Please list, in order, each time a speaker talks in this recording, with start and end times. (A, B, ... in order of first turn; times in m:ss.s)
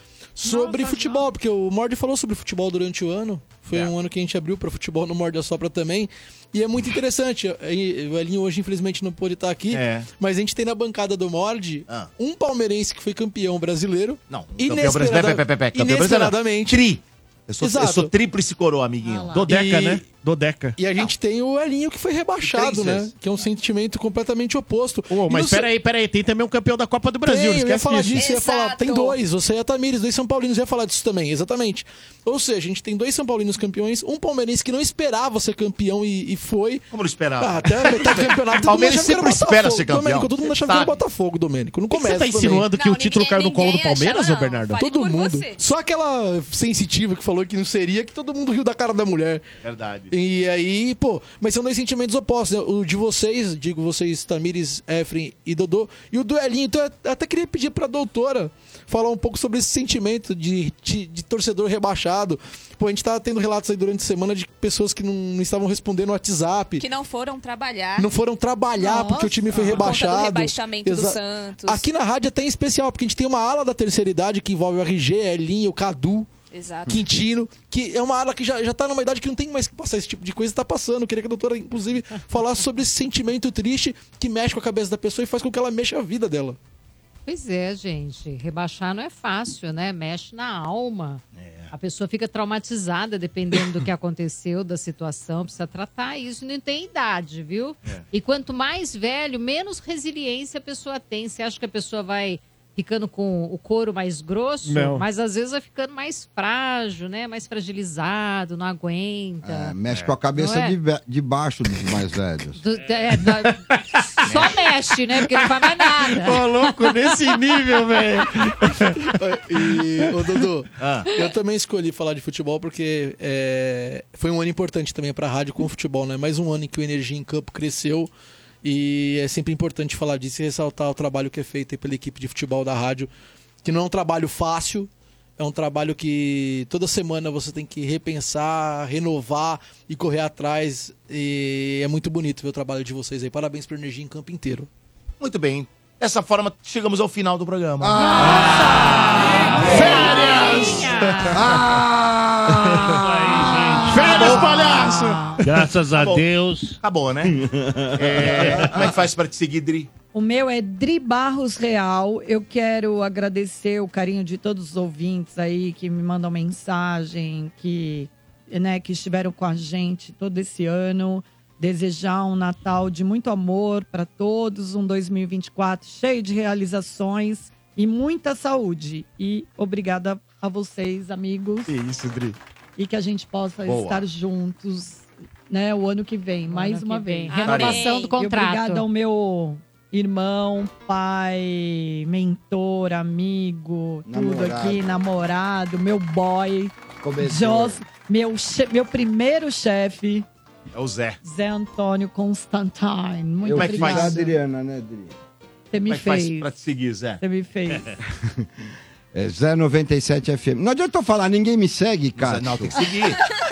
0:00.4-0:16.9 A
0:00.5-0:01.3 B
0:09.7-0:10.1 C
0:14.3-0:19.6 C
0:17.6-0:18.1 A
0:19.1-0:19.4 B
0:19.4-0:20.1 A
0:19.4-0:20.8 D
0:20.8-0:25.7 A
0:22.4-0:23.1 C
0:25.1-0:28.2 D
0:27.2-0:36.9 A
0:28.1-0:29.2 E
0:36.9-0:41.0 C
0:37.4-0:42.7 A
0:42.0-0:44.8 D
0:42.7-0:45.6 E
0:44.8-0:49.4 A
0:49.6-0:50.1 C
0:50.1-1:06.8 A
1:06.8-1:08.1 E
1:08.0-1:16.3 A
1:08.8-1:09.4 B
1:08.9-1:11.8 E
1:16.5-1:17.0 E
1:16.9-1:26.6 A
1:27.2-1:49.7 F
1:31.3-1:31.7 C
1:44.6-1:45.0 D
1:49.4-1:52.6 G
1:49.9-1:50.2 C
1:50.3-1:50.8 F
1:52.6-1:53.6 F
1:54.2-1:56.5 F
1:54.2-1:54.6 C
1:55.4-1:59.1 D
1:59.2-2:08.1 A
2:00.8-2:01.1 C
2:08.6-2:13.1 A
2:13.6-2:24.7 A
2:25.2-2:28.2 C
2:27.8-2:30.1 G
2:28.3-2:29.7 B
2:28.7-2:29.1 H
2:29.5-2:31.2 F
2:29.6-2:31.8 D
2:29.7-2:30.0 C
2:31.3-2:33.0 G
2:32.6-2:33.0 D
2:32.9-2:34.4 H
2:33.8-2:35.4 D
2:34.1-2:34.9 C
2:34.5-2:35.4 B
2:35.4-2:36.8 H
2:35.9-2:37.4 C
2:37.4-2:38.7 G
2:38.0-2:39.9 C
2:38.1-2:38.4 D
2:40.1-3:01.7 B
3:01.7-3:02.4 D
3:02.8-3:20.2 B
3:03.6-3:04.0 C
3:06.5-3:08.9 F
3:07.4-3:08.2 E
3:07.4-3:07.8 C
3:14.0-3:14.9 G
3:17.0-3:17.8 G
3:20.7-3:21.2 C
3:21.2-3:24.4 B
3:23.4-3:25.1 G
3:23.5-3:24.2 C
3:25.7-3:26.5 B
3:25.9-3:27.2 C
3:27.2-3:27.9 B
3:28.1-3:32.8 G
3:32.2-3:33.2 C